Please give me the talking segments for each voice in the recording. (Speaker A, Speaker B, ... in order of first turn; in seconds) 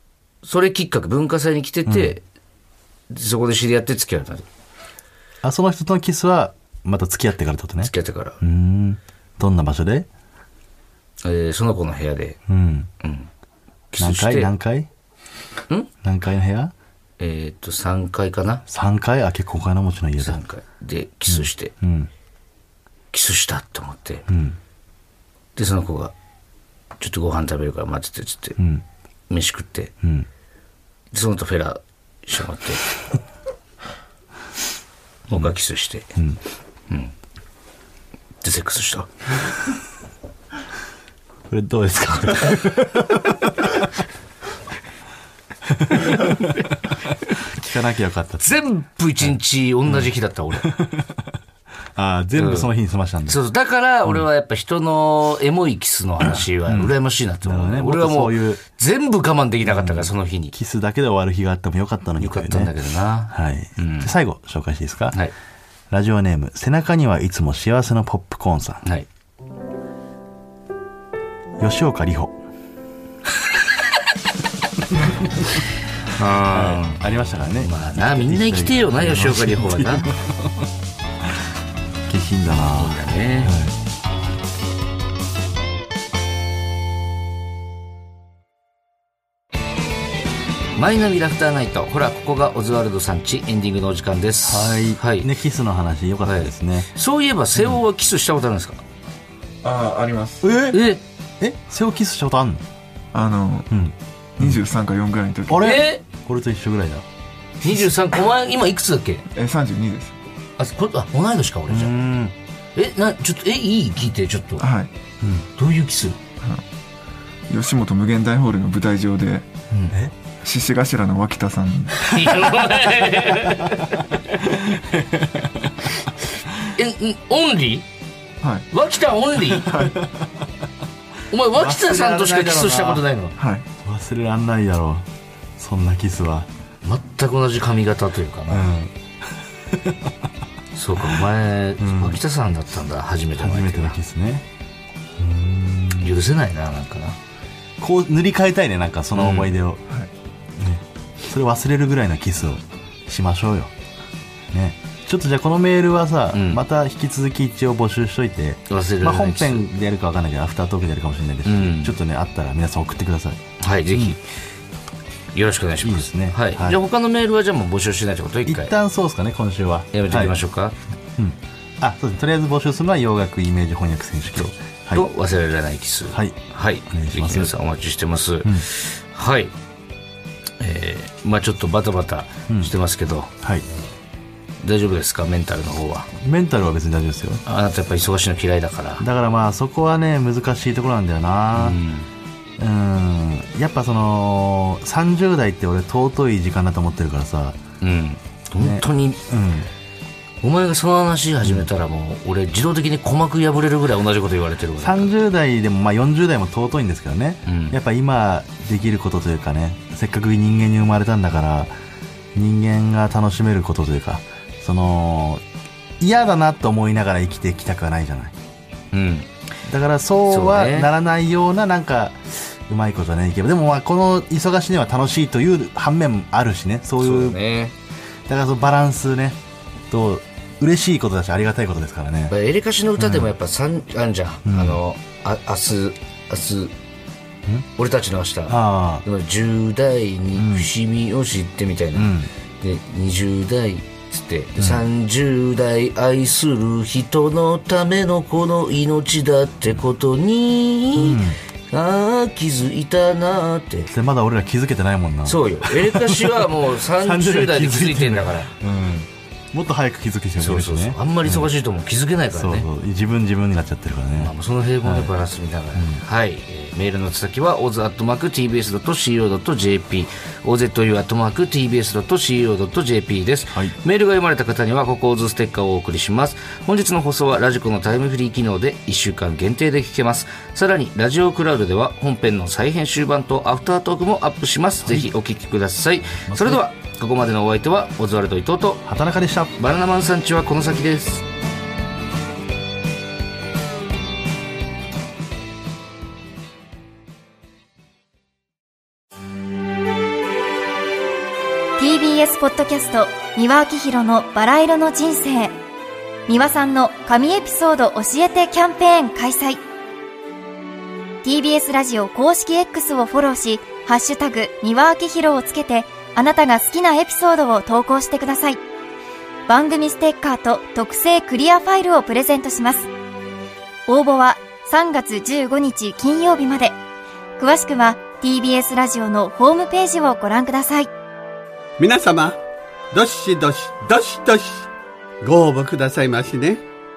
Speaker A: 0.4-2.2, 3.1-4.5, 7.8-8.4, 11.2-12.4, 13.0-13.3, 13.9-14.5, 17.2-18.6, 20.2-21.7, 23.1-24.2, 25.6-26.1, 27.0-28.6, 29.3-29.9, 31.1-32.8, 35.3-36.1, 38.4-39.1, 48.4-50.7, 52.4-52.7, 53.3-60.5, 62.2-64.1, 76.1-77.0, 77.6-80.1, 82.7-83.5, 90.8-95.3, 96.2-98.8, 100.7-101.0, 105.6-106.0, 107.6-109.2, 110.6-112.2, 112.7-114.6, 115.5-116.2, 122.0-124.2, 126.7-127.8, 128.7-129.7, 131.3-133.3, 136.8-138.7, 140.7-144.0, 146.0-147.2, 149.1-149.5, 156.3-156.6, 158.7-159.7, 161.4-161.9, 163.6-164.2, 165.3-168.7, 169.9-170.8, 174.9-179.5, 180.6-183.3, 184.6-186.1, 187.4-189.1, 191.5-192.1, 197.8-199.2, 200.4-205.1, 207.5-207.8, 218.9-219.3, 220.3-220.9, 227.0-227.7, 232.3-236.7, 237.8-253.9, 255.2-258.5, 260.4-262.7, 264.2-288.8, 289.6-291.2
Speaker B: 1.9-2.1, 5.4-10.1, 12.5-12.9, 14.0-14.9, 16.0-16.7, 18.7-20.4, 21.3-22.1, 24.3-24.6, 28.6-28.8, 30.0-30.3, 41.5-43.9, 45.7-46.7, 47.3-48.6, 50.6-51.3, 52.0-53.4, 56.2-58.6, 59.6-62.7, 63.3-65.2, 65.9-68.8, 71.6-72.4, 76.5-80.6, 82.1-83.7, 94.4-96.9, 100.4-100.8, 101.4-102.6, 103.7-104.6, 105.5-107.0, 111.7-112.3, 115.2-115.5, 124.4-125.9, 129.8-130.3, 131.5-133.1, 133.8-135.1, 135.6-136.5, 138.5-138.9, 139.7-140.1, 141.0-142.2, 143.4-144.4, 145.2-146.1, 147.8-149.8, 150.6-153.7, 154.5-164.2, 165.8-166.8, 168.4-170.4, 171.2-175.1, 176.1-176.4, 176.9-177.5, 186.2-187.4, 189.0-191.8, 192.6-197.6, 198.6-199.7, 201.4-201.7, 204.8-211.7, 212.3-215.4, 216.0-218.3, 219.7-227.4, 228.3-229.4, 229.9-232.3, 233.0-233.3, 234.4-234.8, 238.5-239.0, 240.3-240.7, 241.9-242.3, 244.6-244.8, 250.9-251.4, 253.9-261.5, 262.3-265.1, 265.7-266.0, 284.8-285.1, 286.3-286.6, 288.8-289.5
Speaker C: 99.6-100.5, 103.1-103.7, 104.4-105.8, 109.3-110.2, 114.6-114.9, 117.5-119.5, 120.4-122.4, 128.4-128.7, 129.5-130.0, 133.4-133.7
Speaker D: 301.8-305.5, 306.3-309.6, 311.2-318.6, 319.5-322.9, 323.9-326.8, 327.4-330.9
Speaker E: 331.8-332.4, 332.9-334.7, 335.2-336.6